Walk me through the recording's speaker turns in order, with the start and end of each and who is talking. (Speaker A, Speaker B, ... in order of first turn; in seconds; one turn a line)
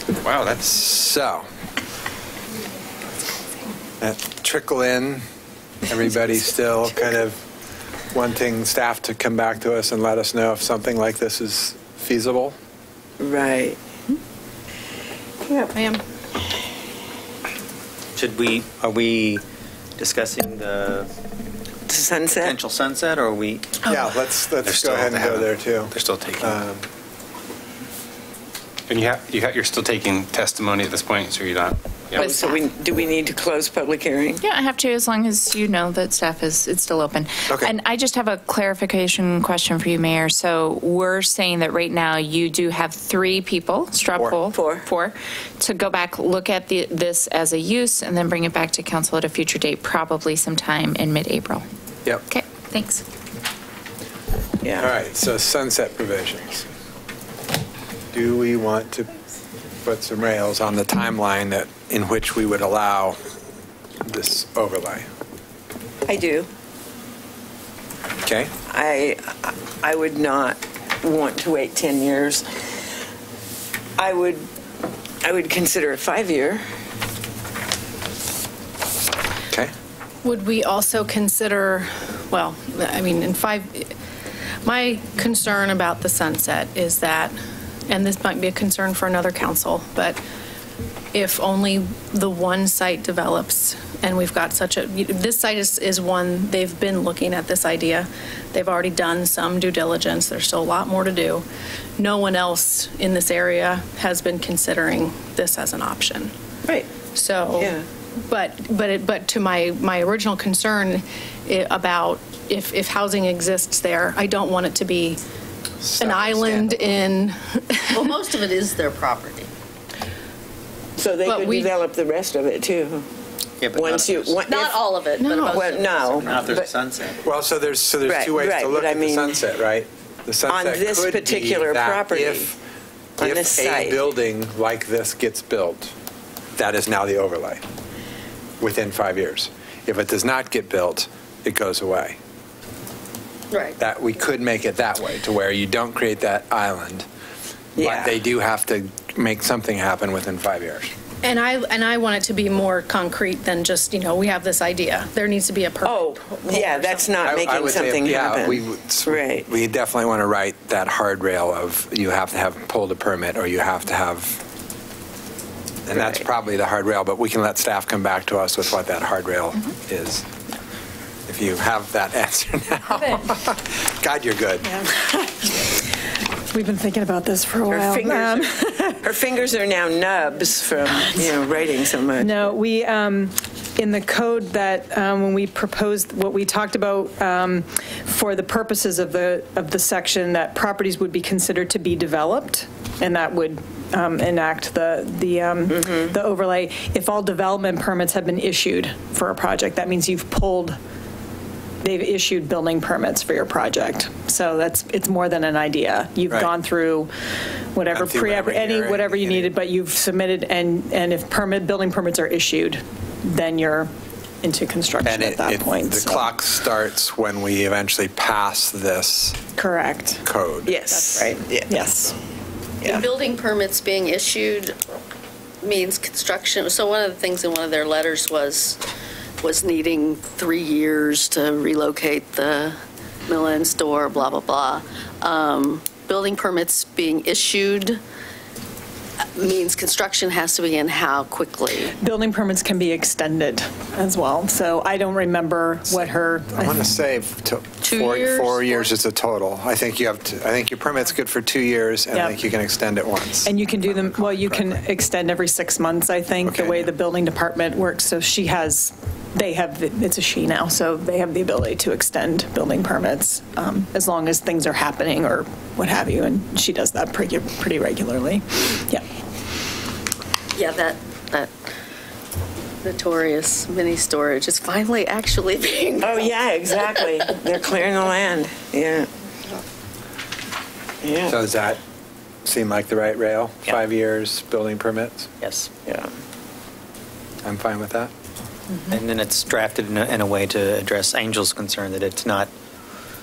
Speaker A: 0.2-0.6
Speaker B: 0.6-1.5
Speaker B: 4.0-5.2
Speaker B: 5.9-7.4
Speaker B: 8.1-12.5
Speaker C: 13.2-13.8
Speaker D: 15.6-16.0
Speaker E: 18.2-19.4
Speaker E: 20.0-21.1
Speaker C: 21.9-22.6
Speaker E: 22.3-23.7
Speaker B: 23.9-26.8
Speaker A: 24.6-26.5
Speaker A: 28.9-32.3
Speaker C: 32.1-34.4
Speaker F: 32.2-32.6
Speaker F: 34.4-51.6
Speaker C: 44.5-44.9
Speaker F: 52.3-53.0
Speaker C: 54.6-54.9
Speaker B: 54.8-56.6
Speaker B: 58.1-59.1
Speaker B: 59.8-63.2
Speaker B: 64.0-65.0
Speaker C: 66.0-66.5
Speaker B: 68.2-68.5
Speaker C: 68.7-72.8
Speaker C: 74.0-74.5
Speaker C: 75.2-76.6
Speaker D: 80.2-83.9
Speaker D: 84.6-87.3
Speaker D: 87.9-90.2
Speaker D: 91.1-101.4
Speaker D: 102.0-106.3
Speaker D: 107.1-115.2
Speaker C: 107.6-107.8
Speaker D: 115.9-118.1
Speaker E: 116.0-116.8
Speaker G: 117.9-119.5
Speaker C: 121.0-123.1
Speaker D: 121.2-121.7
Speaker E: 123.6-124.4
Speaker C: 123.7-124.8
Speaker G: 124.4-126.4
Speaker D: 125.2-125.8
Speaker C: 125.4-126.8
Speaker E: 126.2-127.2
Speaker B: 127.2-132.6
Speaker C: 128.1-129.4
Speaker C: 130.5-132.5
Speaker C: 133.2-134.0
Speaker B: 133.2-135.9
Speaker B: 136.6-137.6
Speaker B: 138.6-142.2
Speaker G: 143.5-143.8
Speaker B: 143.8-147.1
Speaker C: 147.8-148.2
Speaker B: 147.8-150.9
Speaker D: 151.2-157.3
Speaker C: 155.8-159.5
Speaker B: 157.2-164.4
Speaker B: 165.9-170.2
Speaker B: 171.3-174.7
Speaker H: 174.6-175.7
Speaker H: 176.5-179.0
Speaker C: 177.7-182.5
Speaker H: 180.9-200.8
Speaker H: 201.8-207.1
Speaker H: 207.7-213.9
Speaker B: 207.9-209.5
Speaker H: 214.4-216.3
Speaker B: 215.0-219.4
Speaker H: 219.6-222.2
Speaker B: 220.2-220.7
Speaker C: 220.7-221.6
Speaker G: 222.8-224.8
Speaker G: 225.6-228.8
Speaker G: 229.4-232.8
Speaker G: 233.3-238.0
Speaker G: 239.4-241.9
Speaker H: 242.0-246.8
Speaker B: 246.6-254.8
Speaker G: 247.8-248.9
Speaker H: 252.1-252.4
Speaker H: 253.4-269.0
Speaker B: 256.4-256.9
Speaker G: 270.5-271.5
Speaker G: 272.8-276.4
Speaker C: 276.0-279.1
Speaker C: 281.0-281.4
Speaker B: 281.2-281.8
Speaker B: 282.4-285.3
Speaker E: 285.4-285.7
Speaker C: 285.8-286.1
Speaker B: 287.4-288.1
Speaker E: 288.9-292.5